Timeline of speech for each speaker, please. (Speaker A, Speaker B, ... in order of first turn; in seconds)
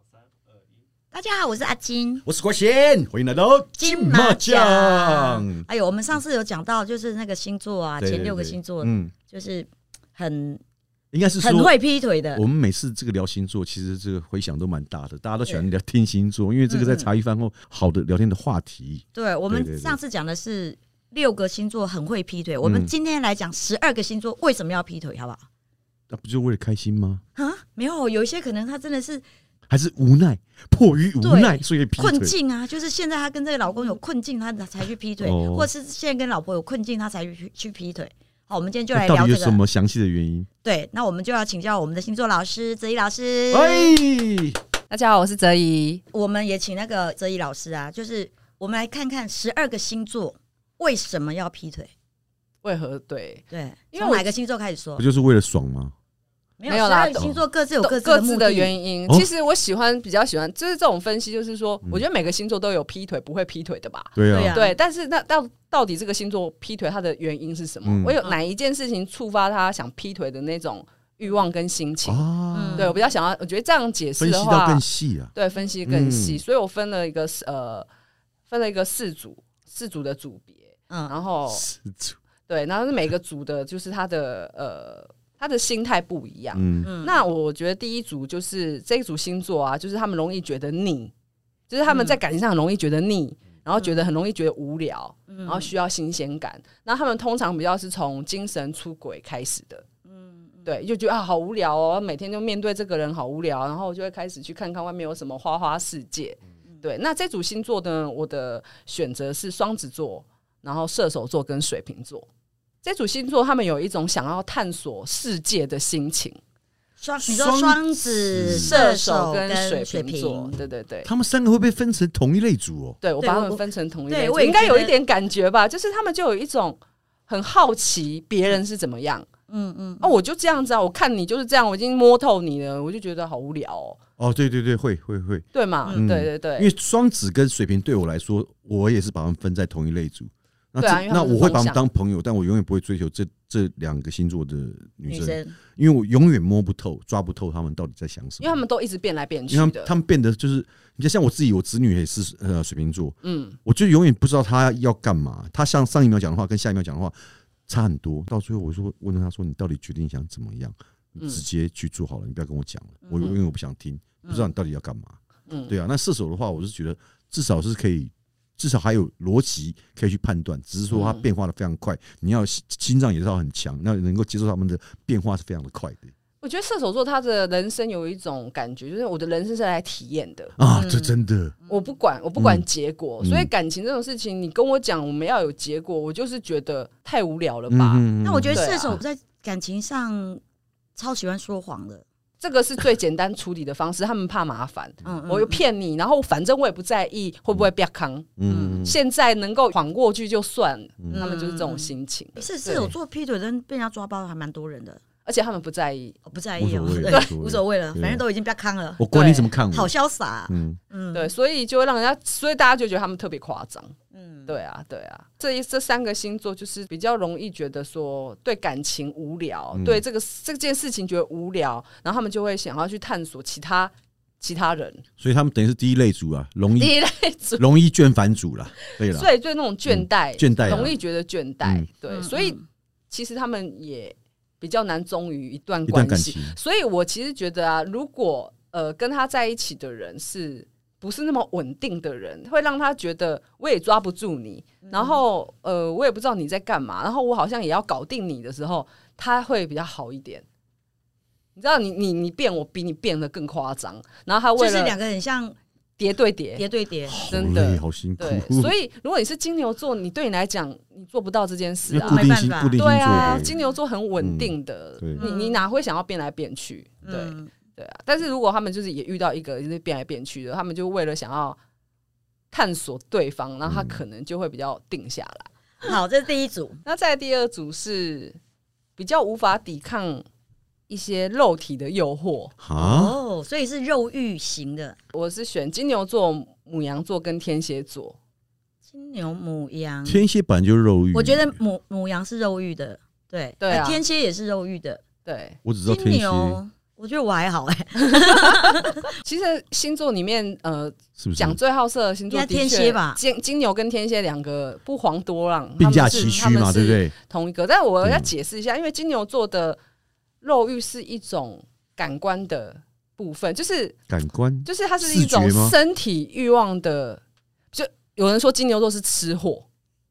Speaker A: 1.1-2.3, 3.8-10.6, 11.4-12.4, 16.7-17.1, 19.1-25.4, 27.4-29.3, 31.2-39.6, 40.6-44.0, 46.1-51.9, 53.5-55.0, 56.6-58.8, 64.3-64.8, 72.5-73.0, 86.8-87.2, 91.8-92.2, 93.8-94.0, 95.3-95.7, 100.1-100.8, 117.0-120.5, 123.2-124.9, 129.5-130.2, 145.1-145.6, 163.0-163.3, 180.7-181.1, 181.7-181.9, 188.2-190.4, 190.9-192.0, 195.1-195.6, 198.5-198.8, 201.1-205.0, 206.2-209.0, 209.7-211.3, 214.1-214.6, 230.6-230.9, 232.1-232.7, 244.8-245.2, 254.6-255.6, 256.6-257.2, 262.0-263.6, 265.2-265.6, 267.0-267.5, 275.8-276.8, 282.8-285.0, 288.9-290.2, 291.1-295.0, 295.9-299.0, 302.3-303.2, 305.9-306.5
Speaker B: 2.2-5.6, 8.0-9.1, 11.1-11.8, 12.3-20.0, 22.6-22.9, 26.1-27.2, 29.7-32.4, 35.2-35.7, 38.9-40.5, 43.5-44.6, 55.0-55.9, 57.1-57.4, 64.2-64.6, 67.8-68.2, 72.0-72.9, 74.2-75.3, 75.8-76.4, 81.5-82.2, 86.5-86.9, 117.2-118.8, 121.0-123.0, 134.2-148.6, 149.5-157.2, 157.7-176.1, 180.6-181.6, 182.4-182.7, 183.2-183.5, 187.7-189.0, 198.4-198.9, 201.0-201.3, 206.6-208.2, 209.0-209.9, 210.5-210.8, 219.7-220.0, 225.2-226.9, 227.6-229.3, 229.9-231.0, 231.6-231.9, 235.9-236.6, 257.1-258.7, 261.9-263.5, 264.2-265.3, 273.6-274.0, 282.6-283.2, 290.1-291.6, 295.6-296.6, 301.2-301.6, 305.8-307.1, 308.0-308.3, 314.1-315.8
Speaker C: 44.9-46.0, 52.6-54.3, 56.7-77.9, 78.5-81.6, 82.5-91.1, 91.7-99.8, 100.7-112.3, 112.8-116.4, 118.6-121.1, 123.0-129.3, 130.0-134.0, 135.5-136.7, 140.8-141.8, 148.4-149.9, 153.2-153.6, 165.5-165.7, 170.9-171.2, 176.4-180.5, 181.7-189.0, 192.4-198.3, 198.8-202.9, 205.2-206.2, 209.1-209.5, 211.1-213.9, 214.5-225.0, 226.8-227.6, 228.9-232.6, 233.1-250.4, 251.6-255.0, 256.0-256.7, 257.3-271.6, 272.5-275.9, 276.9-278.4, 279.0-280.2, 280.9-282.5, 285.1-288.2, 293.6-294.0, 295.2-295.6, 298.1-309.8, 310.4-314.0, 314.6-319.7